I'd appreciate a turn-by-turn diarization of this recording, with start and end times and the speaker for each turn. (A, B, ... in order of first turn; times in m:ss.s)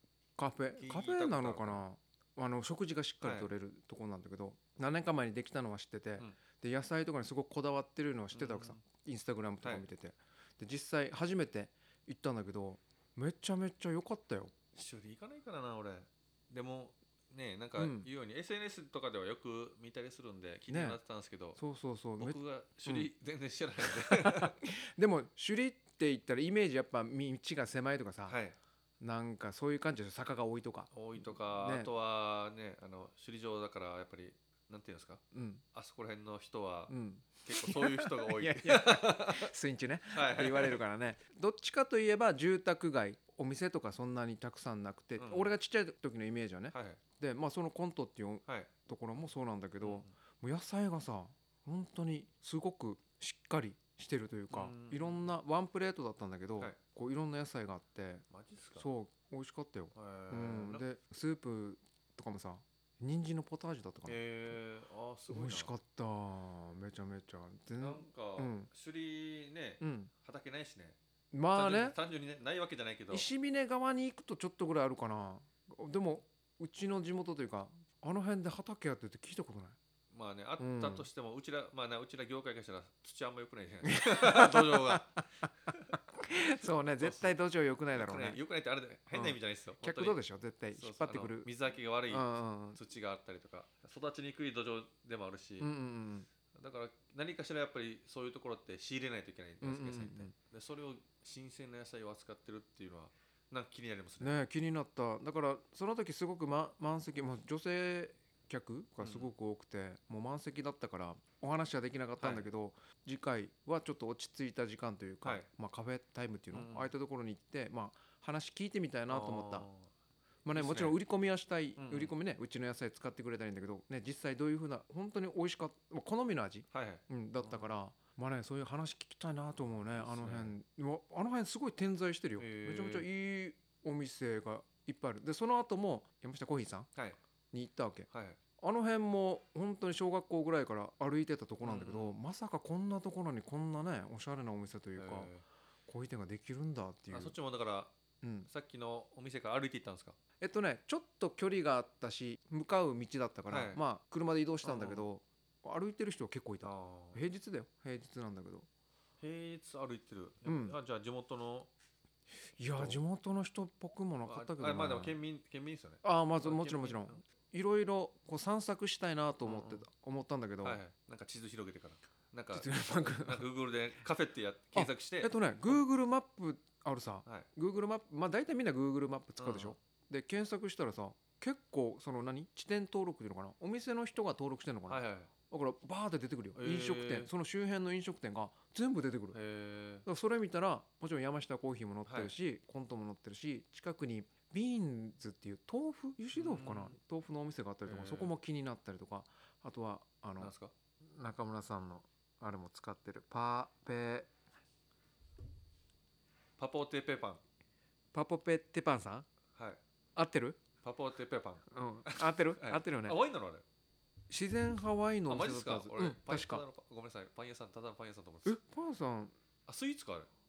0:00.4-0:14.5 A
0:00.8-0:01.8 B
0:03.2-0:03.5 B
0:08.3-0:08.8 B
0:14.8-0:21.6 B
0:17.8-0:18.1 A
0:20.7-0:21.0 A
0:21.6-0:23.1 A
0:22.2-0:24.6 B
0:23.8-0:28.4 A
0:28.3-0:28.6 B
0:29.0-0:31.9 A
0:30.9-0:35.2 B
0:35.3-0:35.6 A
0:35.7-0:36.9 B
0:36.9-1:04.2 A
0:37.4-0:39.5 B
0:40.1-0:40.8 B
0:45.2-0:45.5 B
0:46.7-0:47.0 B
0:49.8-0:50.1 B
0:54.5-0:55.3 B
0:58.3-0:58.9 B
1:00.0-1:00.8 B
1:04.1-1:05.7 B
1:05.3-1:08.7 A
1:07.8-1:11.0 B
1:09.8-1:10.1 A
1:11.3-1:12.0 A
1:11.5-1:13.3 B
1:13.1-1:19.8 A
1:20.1-1:25.1 B
1:20.6-1:21.1 A
1:23.9-1:25.1 A
1:26.2-1:28.4 A
1:27.0-1:27.4 B
1:27.9-1:30.2 B
1:29.1-1:31.5 A
1:30.7-1:35.7 B
1:32.1-1:32.8 A
1:35.6-1:36.3 A
1:36.6-1:44.4 B
1:39.6-1:40.3 A
1:44.2-1:59.7 A
1:49.0-1:49.3 B
1:52.2-1:52.5 B
1:56.5-1:56.9 B
1:59.1-1:59.9 B
2:00.4-2:16.9 A
2:00.5-2:01.0 B
2:01.8-2:02.1 B
2:06.7-2:07.7 B
2:10.0-2:10.6 B
2:12.4-2:13.1 B
2:17.5-2:25.3 A
2:18.1-2:18.4 B
2:21.6-2:22.2 B
2:25.0-2:25.4 B
2:25.9-2:27.4 A
2:27.1-2:27.9 B
2:28.2-2:28.5 A
2:28.5-2:30.2 B
2:30.4-2:38.7 A
2:33.5-2:33.8 B
2:34.6-2:35.1 B
2:36.6-2:37.2 B
2:39.2-2:41.7 B
2:40.4-2:40.8 A
2:42.6-2:45.2 A
2:42.7-2:43.0 B
2:44.2-2:47.2 B
2:46.0-2:50.8 A
2:49.4-2:49.8 B
2:50.6-2:55.8 B
2:52.5-2:53.5 A
2:54.8-3:09.4 A
2:59.4-2:59.8 B
3:04.9-3:05.3 B
3:06.6-3:07.3 B
3:09.3-3:10.1 B
3:10.1-3:20.5 A
3:12.1-3:12.4 B
3:16.3-3:17.0 B
3:17.9-3:18.3 B
3:20.4-3:20.7 B
3:21.2-3:24.3 A
3:26.6-3:27.4 B
3:28.1-3:29.3 A
3:30.2-3:30.6 A
3:30.8-3:33.6 B
3:31.7-3:33.2 A
3:34.3-3:36.6 A
3:35.3-3:38.6 B
3:38.4-3:39.3 A
3:39.7-3:40.3 B